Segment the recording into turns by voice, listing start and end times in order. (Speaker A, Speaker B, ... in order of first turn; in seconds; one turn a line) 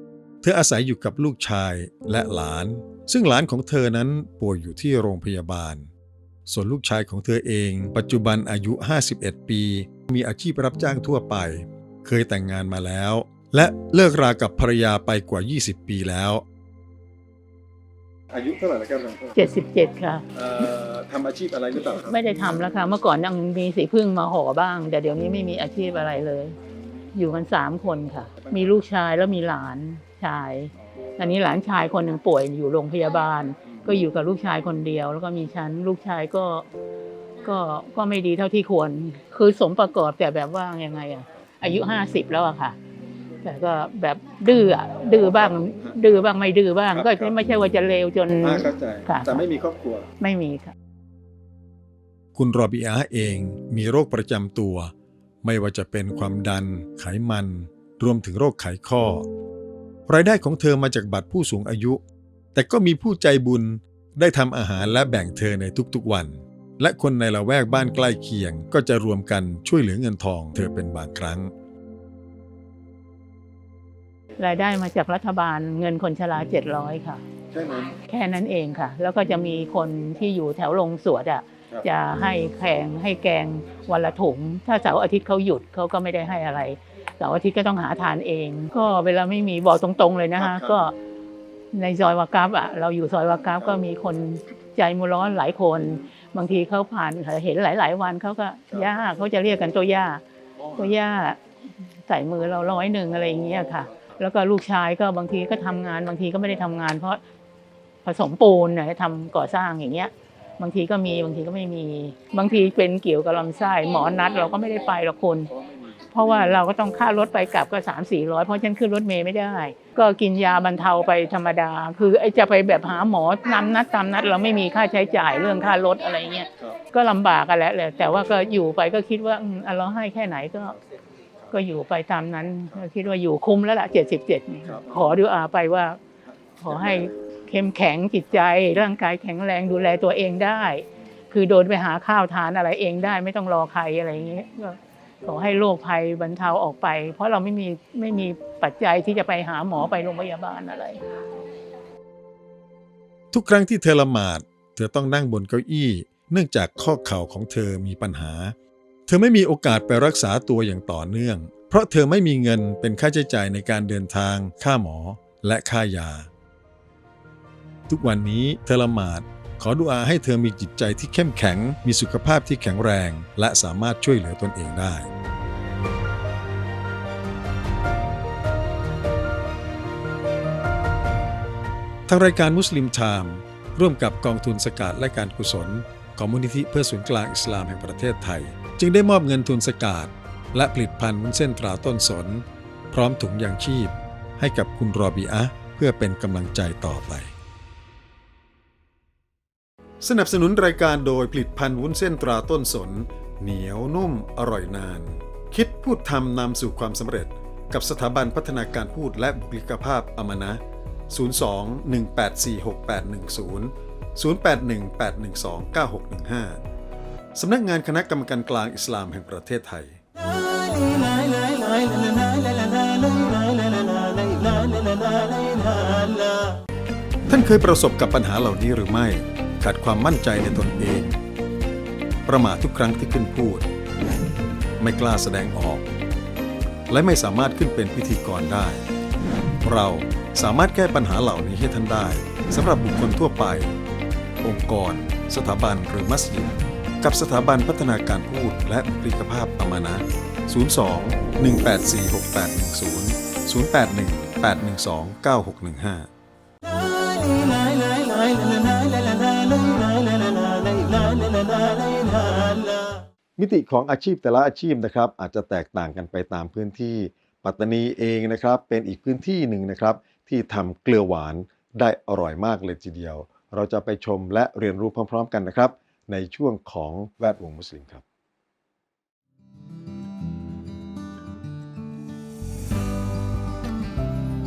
Speaker A: 0.4-5.9
Speaker A: 6.5-16.4
Speaker A: 18.3-19.3
Speaker B: 19.3-20.3
Speaker A: 20.4-22.1
Speaker B: 21.8-26.5
Speaker B: 27.1-36.6
Speaker B: 37.4-42.8
Speaker B: 43.4-49.4
Speaker A: 46.9-47.4
Speaker A: 48.4-50.0
Speaker B: 50.2-50.7
Speaker A: 52.3-54.9
Speaker A: 55.4-59.2
Speaker A: 60.1-62.0
Speaker A: 62.5-71.5
Speaker B: 74.4-77.2
Speaker A: 77.5-77.9
Speaker B: 78.0-90.9
Speaker A: 90.4-90.7
Speaker B: 91.7-100.2
Speaker B: 100.7-101.4
Speaker B: 102.1-107.2
Speaker B: 108.0-115.5
Speaker B: 116.1-130.8
Speaker B: 131.5-136.0
Speaker B: 136.6-151.0
Speaker A: 153.3-158.5
Speaker A: 159.1-166.3
Speaker A: 167.9-175.1
Speaker A: 182.1-197.3
Speaker A: 200.0-216.6
Speaker A: 217.3-220.0
Speaker A: 227.3-231.2
Speaker A: 232.2-233.7
Speaker A: 234.8-235.8
Speaker A: 236.9-238.8
Speaker A: 239.6-243.8
Speaker A: 244.4-256.1
Speaker A: 263.4-278.0